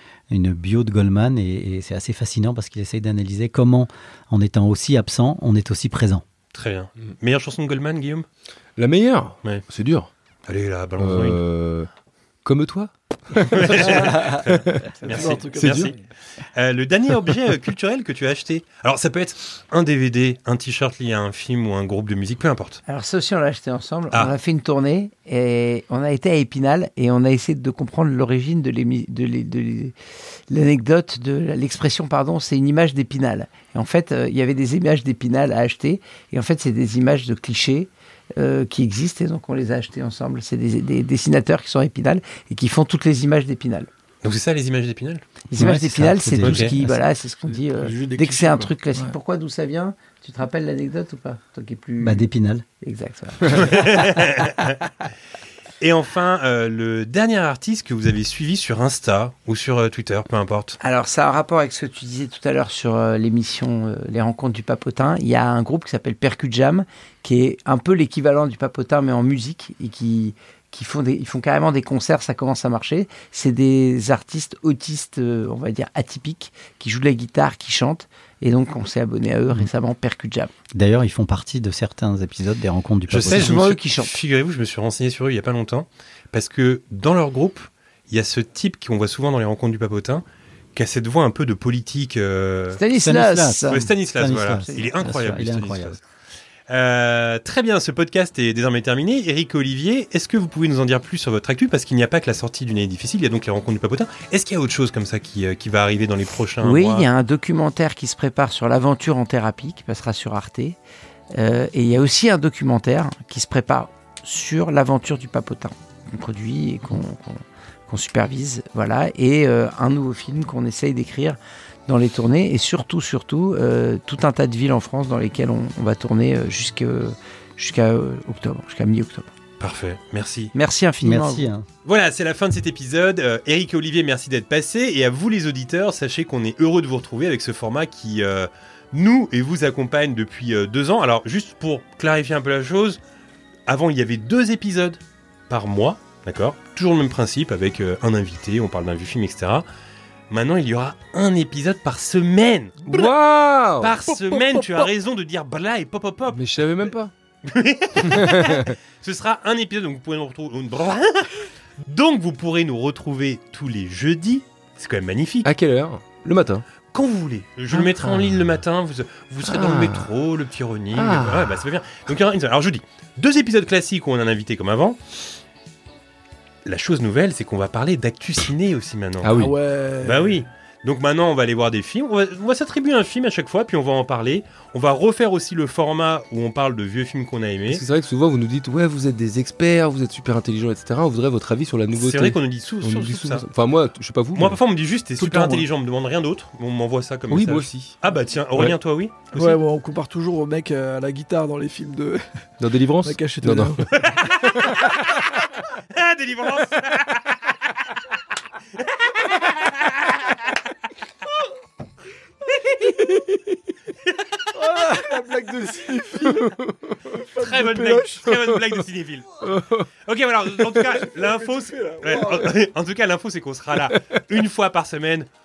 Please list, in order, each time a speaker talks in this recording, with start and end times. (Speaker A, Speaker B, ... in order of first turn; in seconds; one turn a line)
Speaker A: 0.3-6.2
Speaker B: 6.5-8.3
Speaker C: 8.8-10.1
Speaker B: 10.5-11.4
Speaker C: 11.0-11.9
Speaker C: 12.4-14.9
Speaker B: 13.4-15.9
Speaker D: 13.8-14.4
Speaker D: 15.0-16.0
Speaker C: 15.5-15.9
Speaker B: 16.6-22.8
Speaker E: 22.9-29.9
Speaker E: 30.5-43.9
Speaker B: 44.2-45.2
Speaker E: 45.5-52.3
Speaker A: 45.5-47.0
Speaker B: 46.4-46.7
Speaker D: 47.6-49.1
Speaker A: 52.0-52.6
Speaker E: 52.8-54.3
Speaker B: 53.6-54.7
Speaker B: 55.8-60.8
Speaker E: 60.8-80.5
Speaker A: 80.7-83.7
Speaker B: 83.1-90.2
Speaker E: 83.3-84.1
Speaker B: 90.8-92.8
Speaker E: 92.7-93.8
Speaker A: 92.9-96.0
Speaker B: 93.7-96.0
Speaker E: 94.6-94.9
Speaker B: 96.7-107.1
Speaker E: 106.6-110.8
Speaker E: 111.3-129.3
Speaker B: 129.6-130.5
Speaker E: 130.5-131.4
Speaker A: 131.0-131.7
Speaker B: 131.8-143.0
Speaker B: 143.7-149.7
Speaker B: 150.3-153.1
Speaker C: 152.9-154.0
Speaker B: 153.8-156.4
Speaker D: 154.1-154.9
Speaker C: 156.3-157.1
Speaker B: 157.4-165.5
Speaker C: 158.0-158.7
Speaker C: 165.4-166.7
Speaker B: 166.9-175.0
Speaker C: 167.7-168.2
Speaker C: 169.4-170.1
Speaker C: 170.9-171.6
Speaker B: 176.7-187.8
Speaker C: 179.2-179.6
Speaker D: 179.3-180.4
Speaker C: 187.7-194.6
Speaker B: 191.9-193.4
Speaker B: 194.4-199.6
Speaker D: 195.2-195.7
Speaker C: 197.3-198.0
Speaker D: 199.3-202.2
Speaker C: 202.6-205.0
Speaker D: 203.0-203.9
Speaker B: 203.9-204.9
Speaker B: 205.9-207.4
Speaker B: 209.3-209.9
Speaker D: 214.5-216.6
Speaker C: 214.9-217.2
Speaker D: 217.1-218.1
Speaker B: 217.4-219.4
Speaker C: 218.3-218.6
Speaker C: 219.4-219.9
Speaker B: 220.1-225.3
Speaker D: 221.1-222.5
Speaker C: 223.9-224.2